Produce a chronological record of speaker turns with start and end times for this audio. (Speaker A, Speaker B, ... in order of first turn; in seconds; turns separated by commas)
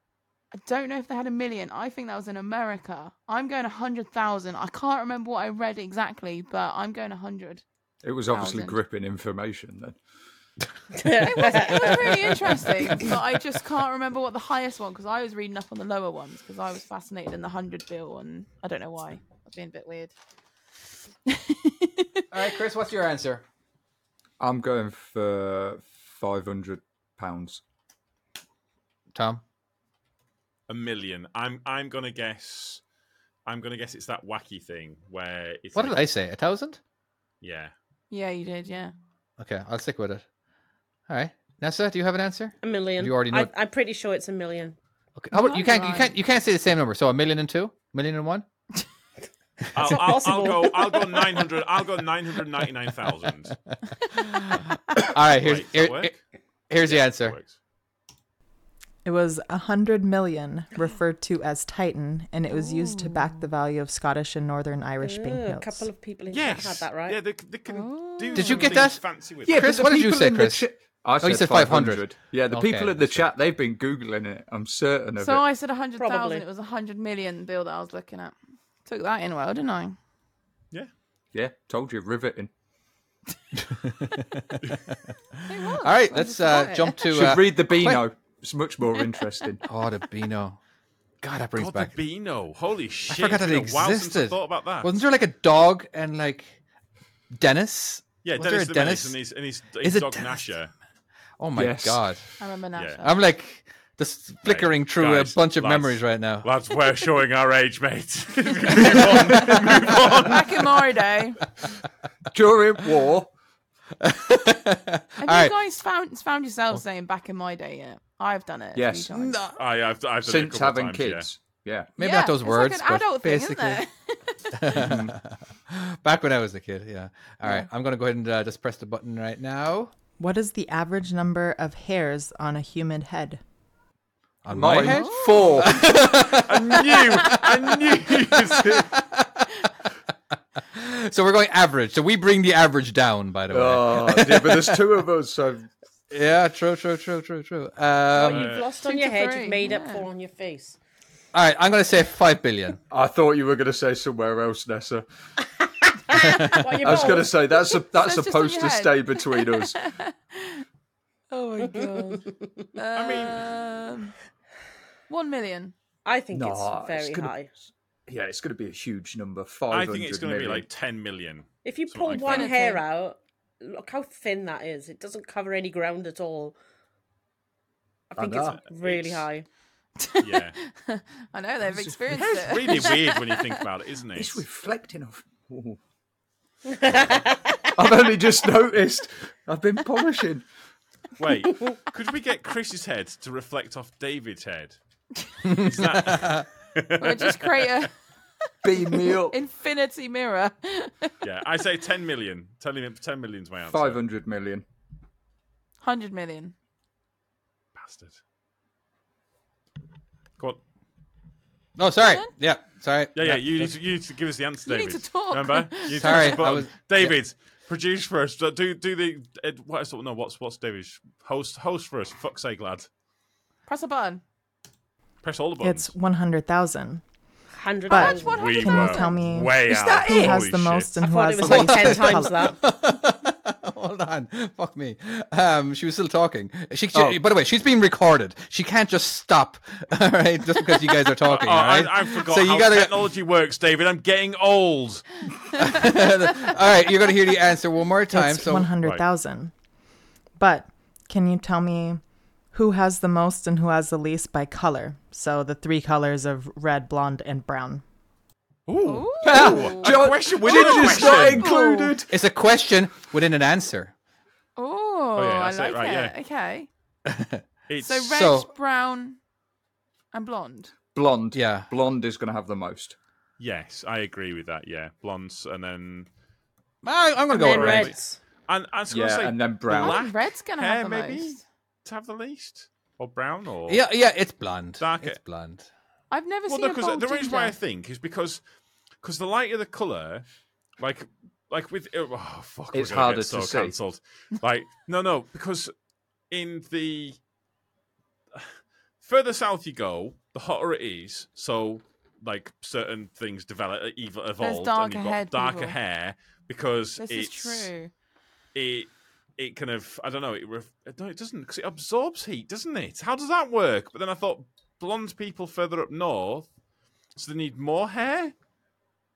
Speaker A: 0.5-7.6, Speaker B: 8.0-10.0, Speaker A: 8.3-8.8, Speaker C: 11.0-12.3, Speaker A: 11.2-20.1, Speaker A: 21.3-22.2, Speaker D: 22.3-23.4, Speaker B: 24.4-27.6, Speaker D: 29.1-29.4, Speaker E: 30.7-32.8, Speaker E: 33.5-36.0, Speaker D: 35.7-36.8, Speaker E: 37.4-37.7, Speaker A: 38.1-38.9, Speaker D: 39.4-40.2, Speaker D: 41.1-43.5, Speaker C: 42.6-44.8, Speaker D: 45.2-48.5, Speaker A: 45.3-46.1, Speaker E: 49.7-53.5, Speaker C: 49.7-51.5, Speaker D: 54.1-56.1, Speaker E: 55.3-56.2, Speaker D: 56.7-57.4, Speaker E: 56.8-57.5, Speaker F: 59.0-65.9, Speaker A: 62.5-63.2, Speaker C: 65.0-67.2, Speaker E: 66.3-69.6, Speaker A: 67.7-68.8, Speaker D: 68.3-70.6, Speaker B: 69.5-75.4, Speaker D: 71.2-73.2, Speaker A: 75.2-80.0, Speaker C: 76.0-76.4, Speaker B: 81.3-82.5, Speaker D: 83.6-85.0, Speaker A: 85.5-87.0, Speaker D: 85.6-88.0, Speaker C: 86.5-86.9, Speaker B: 87.0-89.6, Speaker D: 89.6-90.6, Speaker D: 91.2-91.9, Speaker E: 91.5-94.9, Speaker D: 93.1-96.5, Speaker D: 97.3-99.2, Speaker E: 98.2-100.7, Speaker D: 99.8-100.5, Speaker D: 101.4-102.2, Speaker B: 101.5-102.0, Speaker A: 102.4-103.1, Speaker E: 102.8-103.0, Speaker D: 103.0-106.5, Speaker E: 104.5-110.7, Speaker D: 108.8-109.7, Speaker A: 110.1-111.4, Speaker B: 112.3-113.3, Speaker D: 114.0-115.5, Speaker A: 115.2-119.4, Speaker B: 118.8-119.1, Speaker D: 119.1-119.5, Speaker E: 119.5-121.3, Speaker B: 120.2-121.9, Speaker A: 122.0-124.7, Speaker D: 122.0-123.8, Speaker D: 124.5-129.9, Speaker B: 124.7-125.2, Speaker F: 130.2-133.4, Speaker D: 134.4-139.5, Speaker B: 134.5-135.8, Speaker A: 134.8-135.7, Speaker E: 135.9-138.8, Speaker D: 140.7-144.8, Speaker B: 143.5-145.7, Speaker D: 146.1-148.6, Speaker C: 148.1-150.8, Speaker E: 148.2-148.7, Speaker A: 148.8-150.1, Speaker D: 151.3-152.8, Speaker B: 152.9-155.0, Speaker C: 155.9-157.4, Speaker D: 156.2-156.5, Speaker B: 156.8-159.8, Speaker A: 157.7-160.6, Speaker A: 161.3-164.1, Speaker C: 161.6-162.2, Speaker E: 162.9-163.5, Speaker A: 165.1-165.7, Speaker C: 166.0-167.5, Speaker B: 166.3-170.7, Speaker E: 169.7-172.5, Speaker C: 171.6-176.5, Speaker A: 172.1-172.8, Speaker C: 178.1-179.4, Speaker B: 178.2-178.6, Speaker E: 178.4-179.3, Speaker A: 180.0-183.5, Speaker E: 180.2-180.6, Speaker B: 181.7-182.0, Speaker E: 182.1-184.4, Speaker B: 184.1-185.8, Speaker C: 186.8-187.2, Speaker B: 187.7-190.4, Speaker E: 191.2-194.8, Speaker D: 195.4-196.4, Speaker E: 195.4-197.8, Speaker A: 197.0-197.9, Speaker B: 198.6-199.3, Speaker A: 198.7-201.1, Speaker E: 201.2-204.0, Speaker B: 203.7-204.6, Speaker A: 205.8-206.5, Speaker E: 207.8-208.2, Speaker D: 211.8-213.7, Speaker A: 212.0-212.2, Speaker E: 213.1-222.9, Speaker A: 214.6-216.4, Speaker D: 215.9-217.2, Speaker A: 223.7-224.2, Speaker E: 225.2-225.9, Speaker F: 225.6-227.0, Speaker C: 227.6-228.4, Speaker A: 227.9-229.2, Speaker F: 227.9-232.4, Speaker E: 228.2-230.9, Speaker B: 229.7-230.4, Speaker C: 231.0-232.6, Speaker D: 231.4-243.1, Speaker B: 236.9-237.2, Speaker E: 241.2-245.1, Speaker D: 245.6-248.7, Speaker F: 248.1-249.5, Speaker E: 248.7-249.0, Speaker F: 250.4-257.8, Speaker E: 258.7-261.5, Speaker A: 258.8-262.0, Speaker B: 259.2-262.1, Speaker D: 262.1-263.9, Speaker A: 264.6-266.7, Speaker E: 265.1-266.1, Speaker D: 267.1-267.4, Speaker E: 267.7-268.1, Speaker A: 267.8-269.2, Speaker D: 268.1-268.5, Speaker A: 270.1-270.7, Speaker B: 270.9-272.9, Speaker D: 271.3-271.7, Speaker E: 273.4-276.1, Speaker D: 276.8-277.9, Speaker C: 277.3-278.2, Speaker E: 277.5-283.8, Speaker B: 278.9-280.0, Speaker A: 279.8-281.4, Speaker D: 283.7-285.6, Speaker E: 284.8-285.2, Speaker A: 286.1-287.6, Speaker E: 286.5-288.4, Speaker E: 289.0-290.2, Speaker E: 290.8-295.7, Speaker B: 292.7-293.7, Speaker E: 296.3-297.2, Speaker E: 298.3-307.7, Speaker A: 304.4-305.8, Speaker A: 307.0-307.9, Speaker E: 308.5-316.5, Speaker E: 317.1-318.3